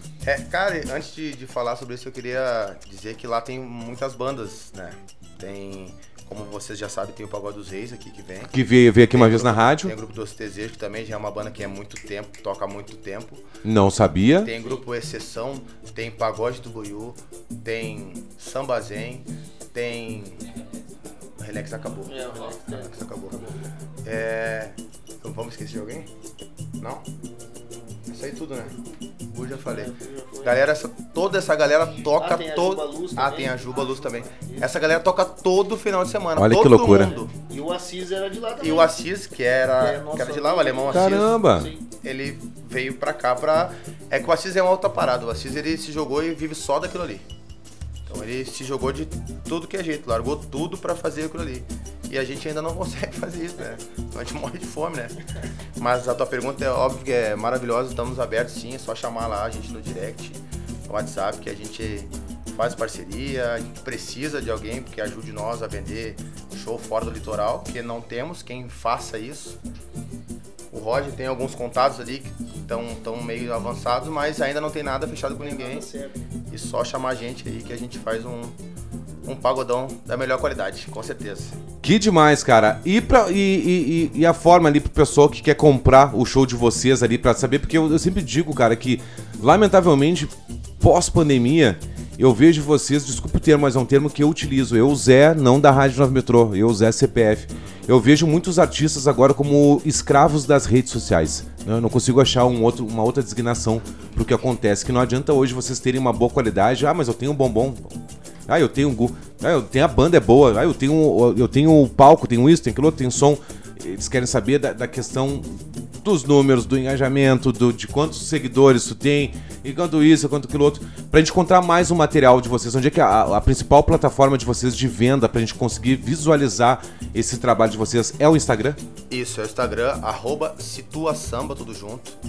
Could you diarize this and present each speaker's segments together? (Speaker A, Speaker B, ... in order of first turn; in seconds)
Speaker A: 0.2-8.5, 9.1-13.4, 14.4-20.4, 21.4-23.5, 24.0-26.1, 26.8-27.1, 28.1-28.7, 29.3-29.9, 30.4-37.3, 38.6-41.4, 42.0-47.2, 48.1-55.1, 55.8-69.6, 70.7-75.9, 76.5-78.6, 79.2-81.5, 129.1-132.2
Speaker B: 8.5-9.9, 13.6-14.5, 36.4-37.1, 40.9-41.7, 81.8-107.9, 108.5-128.8
Speaker C: 22.1-23.7, 29.6-30.6, 32.2-34.7, 37.4-38.9, 39.8-41.8, 75.4-76.2